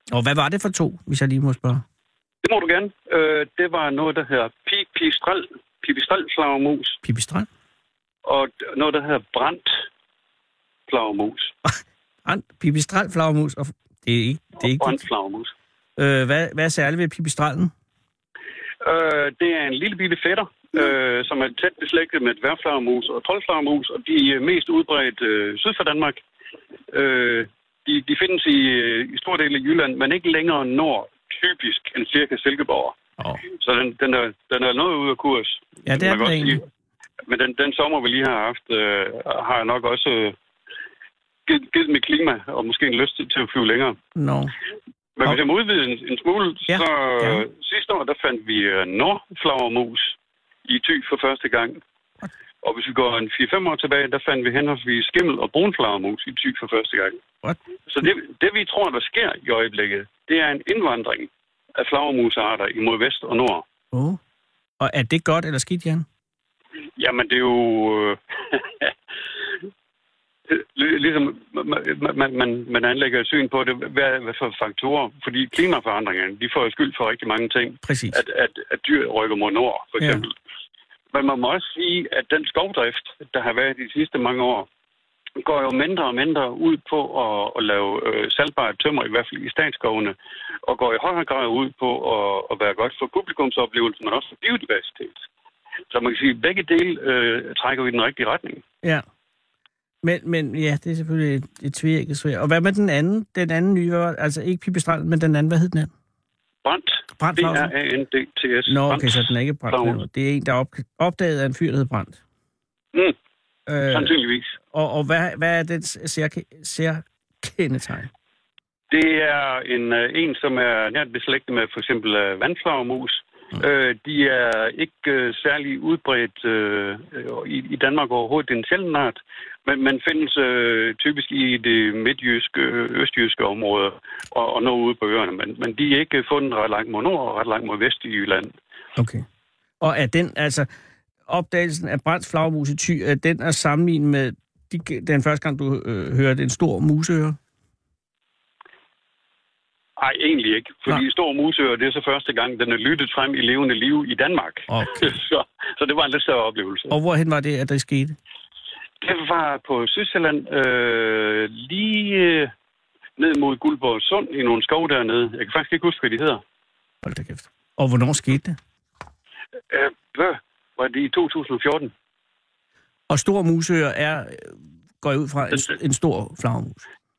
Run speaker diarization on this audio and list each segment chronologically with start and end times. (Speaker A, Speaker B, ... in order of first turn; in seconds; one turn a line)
Speaker A: 0.1-1.8
Speaker B: 2.4-7.0
Speaker A: 7.0-7.5
Speaker B: 8.2-9.8
Speaker B: 10.9-11.5
Speaker A: 12.2-15.0
Speaker B: 14.6-15.5
Speaker A: 16.0-17.7
Speaker B: 18.8-26.2
Speaker B: 26.9-33.0
Speaker B: 33.5-36.6
Speaker A: 35.9-36.6
Speaker B: 37.3-40.4
Speaker B: 41.5-44.0
Speaker A: 44.1-44.5
Speaker B: 45.2-50.1
Speaker A: 46.7-47.4
Speaker B: 50.7-51.8
Speaker B: 52.6-57.2
Speaker B: 57.9-63.7
Speaker A: 63.9-64.2
Speaker A: 64.8-66.1
Speaker B: 67.0-68.9
Speaker B: 70.5-80.3
Speaker A: 77.8-78.2
Speaker B: 81.1-84.7
Speaker B: 85.4-90.2
Speaker B: 90.7-95.2
Speaker B: 95.9-98.6
Speaker A: 100.0-105.9
Speaker B: 106.7-110.0
Speaker A: 107.2-107.7
Speaker A: 108.7-112.2
Speaker A: 113.7-114.2
Speaker B: 113.9-114.5
Speaker A: 114.7-118.1
Speaker B: 118.9-138.5
Speaker A: 139.0-139.2
Speaker A: 139.8-140.7
Speaker A: 141.3-147.4
Speaker B: 150.0-156.9
Speaker A: 154.7-155.2
Speaker A: 156.9-158.2
Speaker B: 159.0-162.5
Speaker B: 163.2-166.4
Speaker A: 167.0-168.6
Speaker B: 169.7-171.9
Speaker A: 173.1-176.8